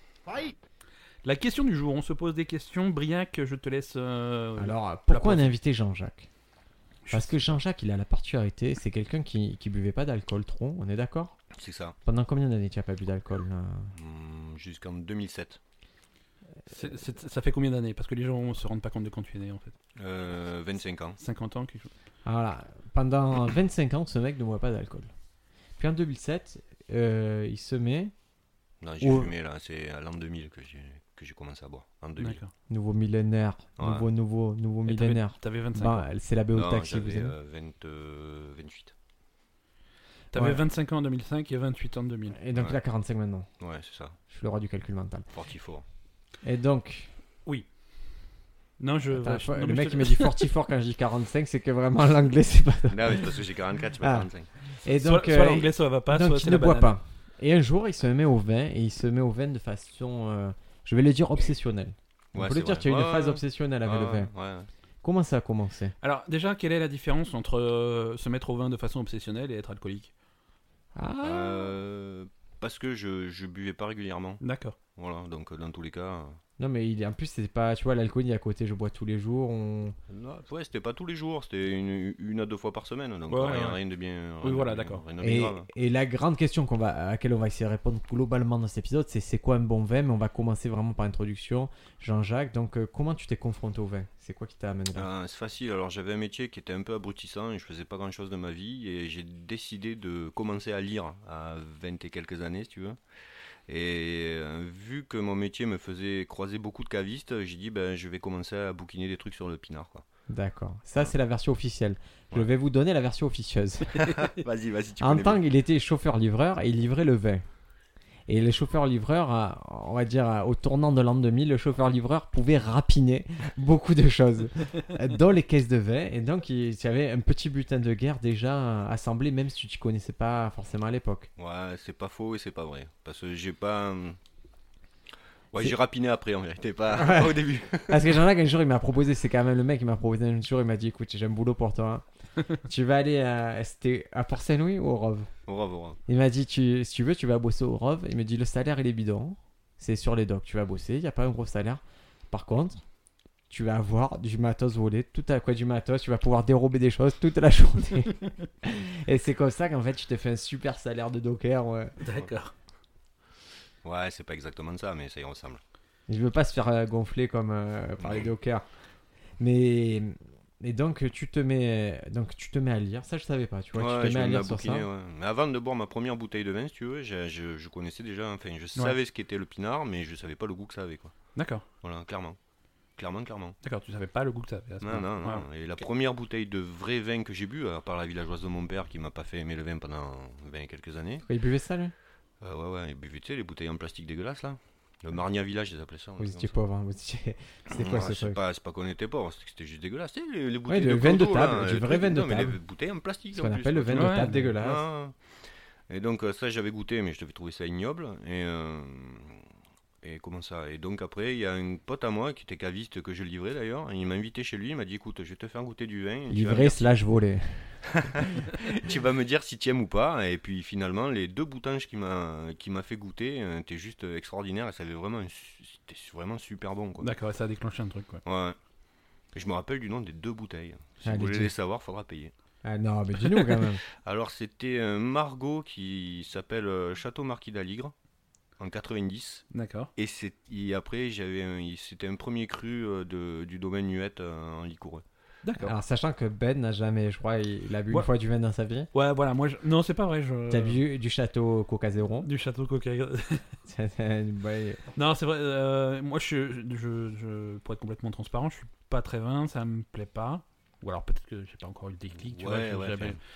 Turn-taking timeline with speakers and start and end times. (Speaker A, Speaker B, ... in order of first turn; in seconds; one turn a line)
Speaker A: 1.2-5.5
Speaker B: 4.6-6.3
Speaker A: 7.0-7.5
Speaker B: 7.1-11.4
Speaker C: 11.5-12.0
Speaker B: 12.1-13.9
Speaker C: 13.9-15.6
Speaker A: 16.7-19.7
Speaker C: 20.0-21.2
Speaker A: 21.2-21.9
Speaker B: 22.2-25.1
Speaker B: 25.8-28.1
Speaker C: 28.8-32.4
Speaker B: 29.0-29.3
Speaker A: 32.2-32.5
Speaker B: 32.7-37.3
Speaker C: 33.8-34.1
Speaker A: 34.9-36.0
Speaker C: 36.5-38.9
Speaker B: 40.3-40.6
Speaker A: 40.3-42.4
Speaker B: 42.4-43.5
Speaker C: 43.6-44.2
Speaker B: 44.3-45.3
Speaker C: 45.3-45.8
Speaker B: 46.4-47.1
Speaker A: 48.8-50.5
Speaker B: 49.1-53.5
Speaker C: 52.9-54.5
Speaker B: 54.0-64.3
Speaker A: 55.0-57.0
Speaker C: 62.3-64.7
Speaker B: 65.0-66.0
Speaker A: 66.0-70.1
Speaker B: 71.0-71.7
Speaker C: 71.2-74.4
Speaker A: 74.4-74.8
Speaker C: 75.0-76.4
Speaker B: 76.6-80.0
Speaker C: 80.1-85.7
Speaker A: 83.3-83.8
Speaker A: 84.4-85.0
Speaker B: 85.2-95.1
Speaker C: 94.9-103.0
Speaker C: 103.7-110.0
Speaker B: 110.3-114.1
Speaker C: 114.0-115.4
Speaker B: 115.0-117.4
Speaker B: 118.3-131.3
Speaker C: 131.4-134.2
Speaker C: 135.5-138.2
Speaker B: 136.9-145.3
Speaker C: 145.5-146.0
Speaker B: 146.1-152.8
Speaker B: 153.5-161.9
Speaker A: 162.0-162.5
Speaker C: 163.8-165.6
Speaker B: 166.1-168.7
Speaker C: 168.0-168.3
Speaker B: 169.4-174.9
Speaker C: 173.8-181.1
Speaker A: 181.3-181.7
Speaker C: 181.8-182.4
Speaker C: 183.0-183.6
Speaker A: 183.6-185.5
Speaker C: 184.8-191.3
Speaker B: 191.3-191.9
Speaker C: 192.4-196.6
Speaker B: 196.2-198.4
Speaker C: 197.7-205.2
Speaker B: 200.7-202.6
Speaker B: 203.3-204.8
Speaker A: 203.9-204.5
Speaker C: 205.9-209.4
Speaker C: 210.0-216.9
Speaker B: 216.3-217.8
Speaker C: 217.9-227.1
Speaker A: 227.0-228.2
Speaker C: 228.2-228.6
Speaker C: 229.3-232.3
Speaker B: 231.0-231.5
Speaker B: 232.6-233.8
Speaker C: 234.0-237.9
Speaker C: 238.6-245.0
Speaker A: 239.5-239.9
Speaker A: 245.4-245.7
Speaker B: 245.6-248.9
Speaker A: 248.9-250.8
Speaker B: 250.5-252.3
Speaker A: 252.2-253.5
Speaker B: 253.7-254.8
Speaker A: 254.9-263.2
Speaker C: 262.2-263.2